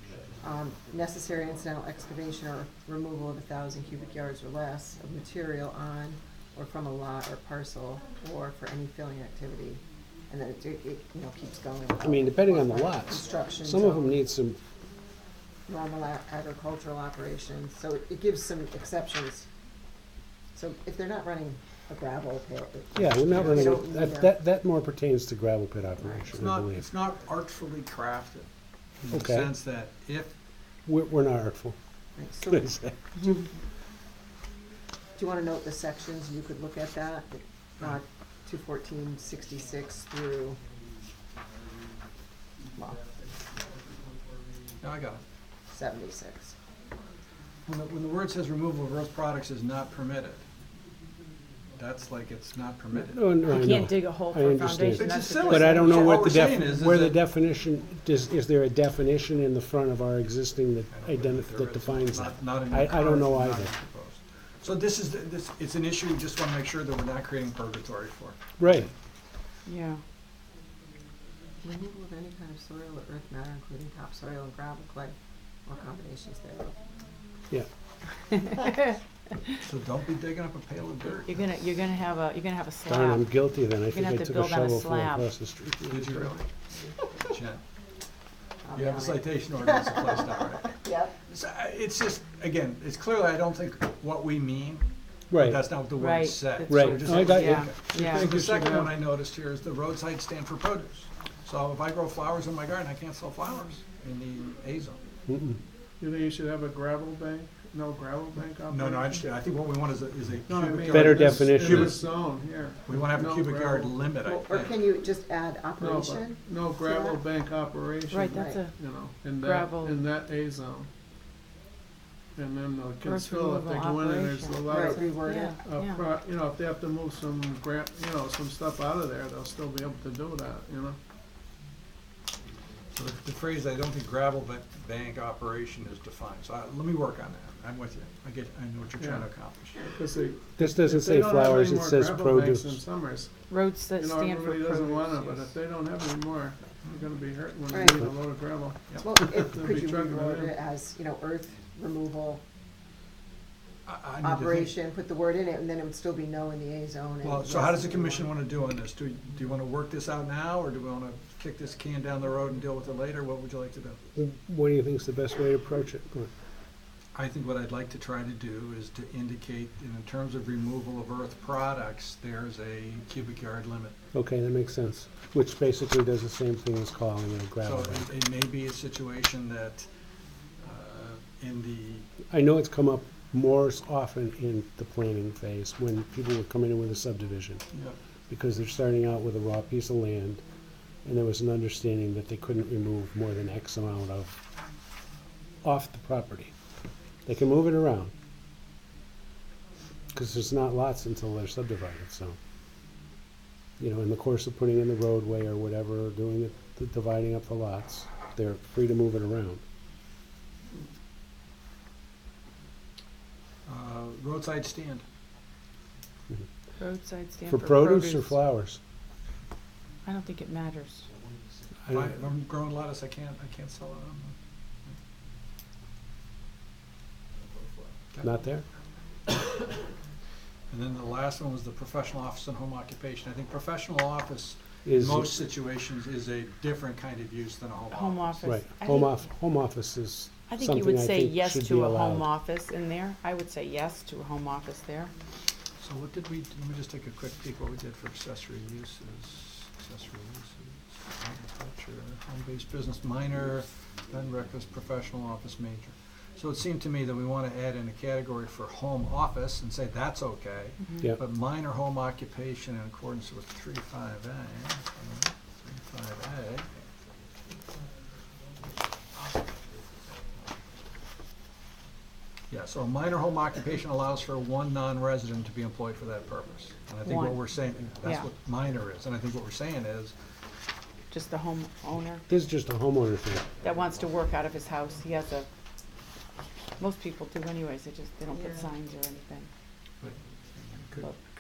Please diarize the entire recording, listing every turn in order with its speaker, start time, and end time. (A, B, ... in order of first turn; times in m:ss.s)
0:00.4-0:14.2 A
0:12.0-0:14.6 B
0:15.7-0:19.5 A
0:20.5-0:24.3 A
0:23.0-0:26.9 B
0:23.3-0:23.8 C
0:26.3-0:28.5 C
0:29.0-0:30.4 C
0:29.1-0:29.5 B
0:30.9-0:31.8 B
0:32.2-0:32.8 A
0:32.5-0:32.9 B
0:35.2-0:40.6 A
0:44.8-0:45.2 C
0:45.7-0:46.6 A
0:47.7-0:50.4 C
0:51.8-0:53.7 C
0:52.9-1:03.7 B
0:53.4-0:56.3 D
0:54.9-0:57.2 C
1:00.9-1:08.9 C
1:08.6-1:08.9 B
1:09.6-1:10.0 D
1:11.6-1:15.2 A
1:15.7-1:16.8 A
1:19.6-1:21.4 C
1:21.3-1:25.3 D
1:22.9-1:26.2 B
1:25.9-1:27.6 C
1:28.6-1:31.1 A
1:28.7-1:45.0 C
1:35.3-1:35.7 B
1:36.0-1:38.4 D
1:36.7-1:37.7 B
1:37.8-1:39.0 E
1:45.3-1:45.6 B
1:46.0-1:49.2 E
1:48.7-1:52.1 C
1:50.5-1:54.0 E
1:50.9-1:52.0 B
1:52.8-1:54.8 C
1:54.2-1:57.2 A
1:55.8-2:00.9 E
1:58.1-1:58.8 D
1:58.3-1:58.6 A
1:59.4-2:00.0 D
2:02.4-2:11.0 E
2:03.0-2:06.1 D
2:04.6-2:05.6 A
2:12.9-2:19.9 C
2:19.0-2:19.3 E
2:19.8-2:30.6 E
2:20.6-2:22.8 B
2:23.5-2:25.5 D
2:27.7-2:28.1 A
2:29.0-2:32.4 A
2:33.9-2:34.8 C
2:34.2-2:38.3 A
2:37.2-2:44.0 C
2:44.2-2:46.3 B
2:47.1-2:54.0 C
2:54.1-2:58.1 B
2:57.6-2:59.9 C
3:00.6-3:02.1 C
3:02.3-3:07.6 B
3:08.3-3:10.4 B
3:11.0-3:14.4 B
3:15.6-3:16.5 B
3:17.3-3:18.1 B
3:20.1-3:22.4 B
3:23.8-3:29.6 B
3:33.7-3:35.0 C
3:36.8-3:38.3 D
3:37.5-3:38.8 B
3:40.0-3:41.1 D
3:41.9-3:45.0 C
3:47.5-3:48.3 C
3:48.2-3:48.6 B
3:50.7-3:58.5 C
3:54.8-3:55.4 B
3:57.9-3:59.1 D
3:58.4-4:02.3 B
4:00.5-4:05.1 D
4:05.8-4:26.7 C
4:32.5-4:40.1 C
4:37.0-4:37.4 D
4:41.1-4:42.2 D
4:42.3-4:43.5 B
4:43.6-4:45.5 D
4:46.8-4:49.5 D
4:48.3-4:48.7 A
4:50.0-4:51.2 C